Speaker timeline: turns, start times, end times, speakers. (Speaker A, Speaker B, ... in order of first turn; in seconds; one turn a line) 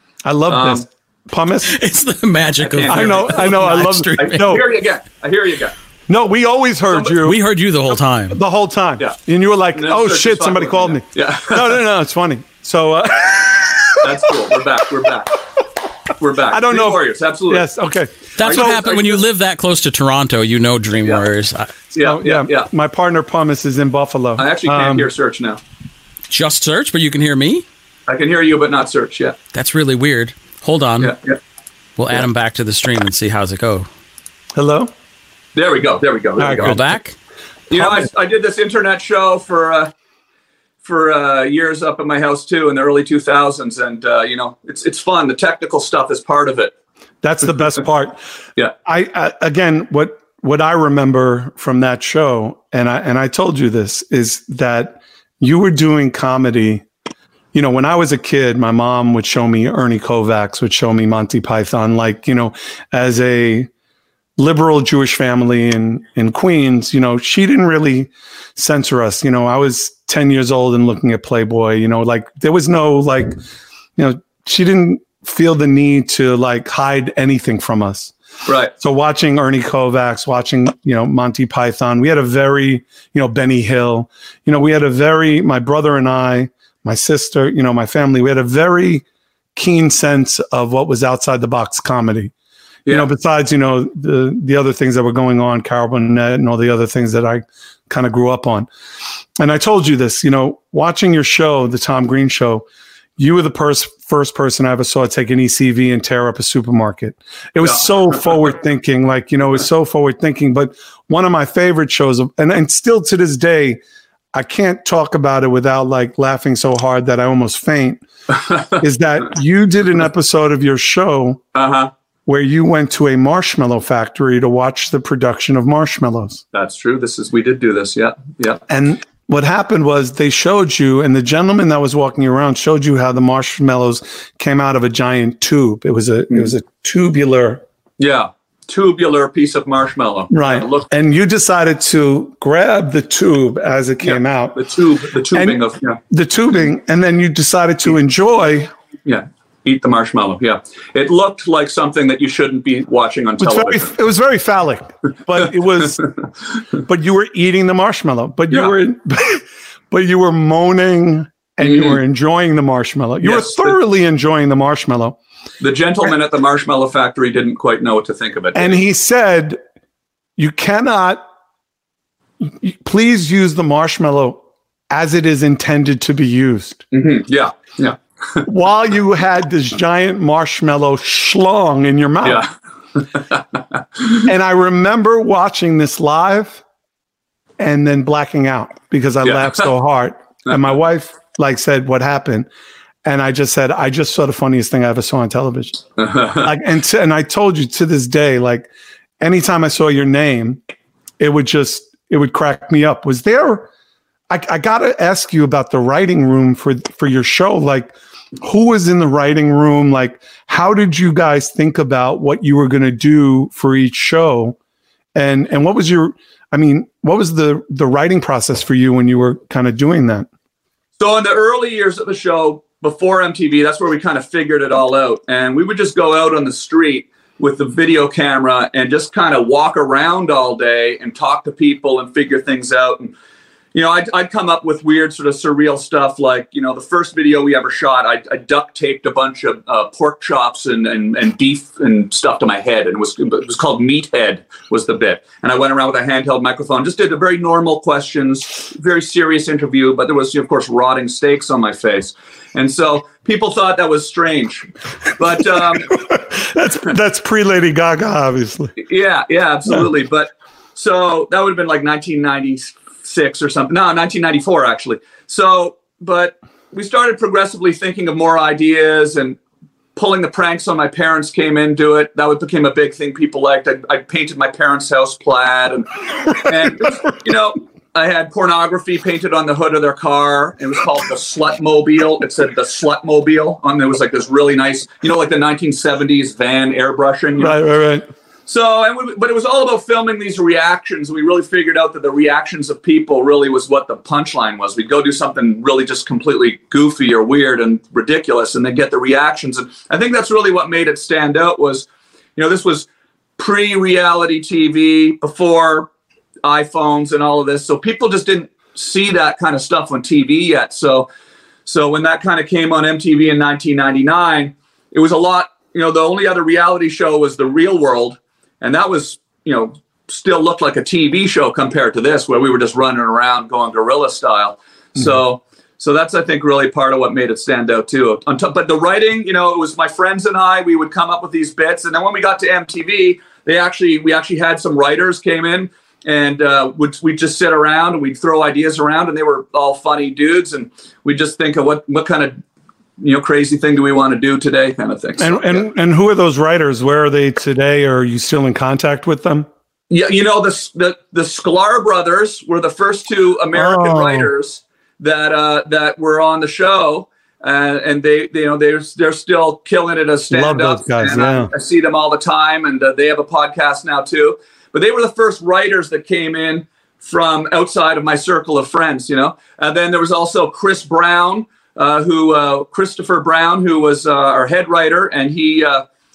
Speaker A: 0.2-1.8
Speaker B: 0.5-0.8
Speaker C: 1.7-4.6
Speaker B: 2.6-5.7
Speaker A: 2.8-4.6
Speaker A: 6.1-14.1
Speaker B: 6.9-7.2
Speaker C: 7.2-8.4
Speaker B: 9.7-11.8
Speaker B: 14.0-15.4
Speaker B: 16.2-17.6
Speaker A: 16.5-18.9
Speaker C: 18.4-21.7
Speaker B: 18.4-19.2
Speaker B: 21.9-22.7
Speaker A: 21.9-25.1
Speaker B: 24.4-25.6
Speaker C: 26.3-27.6
Speaker B: 28.1-29.4
Speaker C: 29.5-31.1
Speaker B: 31.0-31.4
Speaker C: 32.0-33.9
Speaker A: 34.5-34.9
Speaker B: 35.5-36.8
Speaker A: 36.4-36.8
Speaker C: 36.5-37.1
Speaker B: 37.7-39.9
Speaker A: 37.7-38.1
Speaker B: 40.8-46.7
Speaker A: 47.2-48.2
Speaker A: 48.8-56.9
Speaker A: 57.5-63.7
Speaker A: 64.4-73.3
Speaker A: 74.0-78.1
Speaker B: 78.4-78.7
Speaker A: 78.8-89.0
Speaker A: 89.5-92.3
Speaker A: 92.9-98.7
Speaker A: 99.4-102.6
Speaker A: 103.2-113.8
Speaker B: 107.6-108.1
Speaker A: 114.3-118.0
Speaker B: 118.4-118.8
Speaker A: 118.7-121.4
Speaker B: 121.5-121.9
Speaker A: 122.2-126.4
Speaker B: 126.5-128.6
Speaker A: 128.7-137.6
Speaker B: 138.0-140.9
Speaker A: 140.3-144.6
Speaker B: 144.0-146.0
Speaker A: 145.3-148.7
Speaker B: 149.1-153.9
Speaker A: 153.4-156.1
Speaker A: 156.8-165.2
Speaker B: 161.6-162.0
Speaker B: 163.2-163.8
Speaker B: 165.6-168.8
Speaker A: 168.5-169.6
Speaker A: 170.4-171.2
Speaker A: 172.6-176.8
Speaker B: 176.9-178.4
Speaker A: 178.4-182.5
Speaker B: 182.2-184.2
Speaker A: 184.2-186.6
Speaker A: 187.6-192.5
Speaker B: 189.2-189.7
Speaker A: 193.0-195.8
Speaker B: 196.0-196.5
Speaker A: 196.4-198.7
Speaker A: 199.2-200.6
Speaker A: 201.2-203.7
Speaker A: 204.3-214.6
Speaker A: 215.1-220.3
Speaker B: 221.0-233.1
Speaker B: 233.7-255.9
Speaker A: 255.5-258.8
Speaker B: 258.8-269.4
Speaker B: 269.9-287.6
Speaker A: 276.6-276.9
Speaker A: 287.4-288.1
Speaker B: 288.5-305.9
Speaker B: 306.4-311.1
Speaker B: 311.6-342.4
Speaker B: 343.0-345.6
Speaker A: 345.2-349.5
Speaker B: 349.9-375.9
Speaker A: 353.5-354.3
Speaker A: 360.3-361.5